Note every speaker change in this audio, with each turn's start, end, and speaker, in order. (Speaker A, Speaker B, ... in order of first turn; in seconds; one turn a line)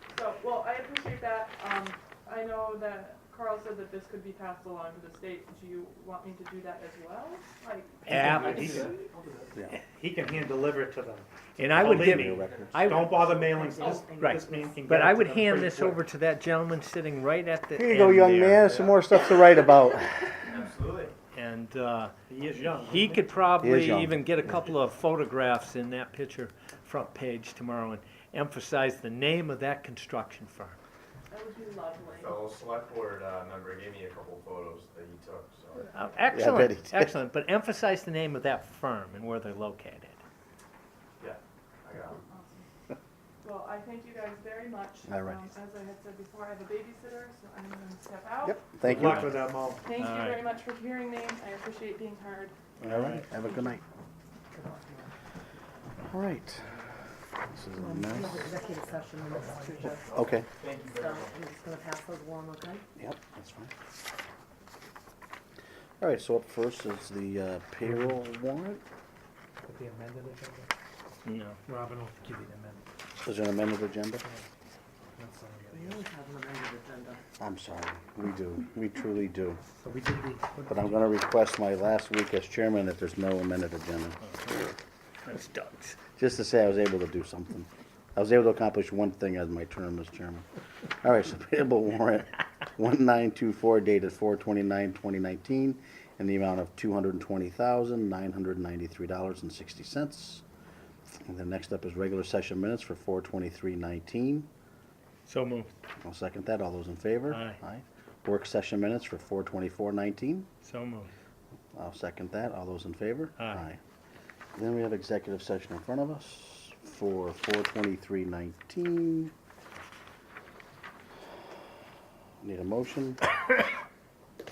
Speaker A: 0.1-9.1
Speaker B: 8.1-8.9
Speaker C: 8.1-8.9
Speaker D: 8.3-9.5
Speaker C: 9.8-16.0
Speaker B: 11.6-13.3
Speaker E: 11.7-12.7
Speaker D: 12.4-13.5
Speaker F: 13.5-14.8
Speaker B: 14.2-18.8
Speaker E: 17.8-20.4
Speaker D: 20.5-21.1
Speaker B: 21.3-22.1
Speaker C: 22.3-23.2
Speaker B: 22.7-30.8
Speaker E: 23.6-24.3
Speaker A: 31.3-32.5
Speaker G: 32.1-35.8
Speaker B: 35.8-40.2
Speaker E: 36.3-37.1
Speaker G: 41.2-42.2
Speaker A: 42.1-42.7
Speaker A: 43.4-48.6
Speaker E: 45.1-45.5
Speaker E: 48.4-49.3
Speaker C: 48.8-49.9
Speaker B: 48.9-50.4
Speaker A: 49.8-52.5
Speaker E: 52.8-53.8
Speaker B: 52.8-53.2
Speaker F: 53.3-53.8
Speaker F: 54.5-55.1
Speaker E: 56.1-56.7
Speaker E: 57.5-58.5
Speaker F: 57.7-60.1
Speaker E: 60.1-60.5
Speaker B: 60.6-61.1
Speaker F: 60.9-62.8
Speaker E: 63.0-63.7
Speaker E: 66.0-68.8
Speaker C: 67.8-68.1
Speaker C: 69.6-70.7
Speaker B: 71.2-71.6
Speaker C: 71.7-72.8
Speaker E: 73.2-74.2
Speaker C: 75.2-76.1
Speaker F: 75.7-77.2
Speaker E: 77.4-79.6
Speaker C: 79.8-81.1
Speaker E: 80.7-84.2
Speaker B: 85.2-86.0
Speaker E: 86.2-90.4
Speaker E: 91.0-100.4
Speaker E: 101.2-104.5
Speaker B: 105.2-105.7
Speaker E: 106.0-110.5
Speaker B: 107.3-107.6
Speaker B: 110.6-111.1
Speaker E: 111.7-113.8
Speaker E: 114.5-119.3
Speaker E: 122.4-123.2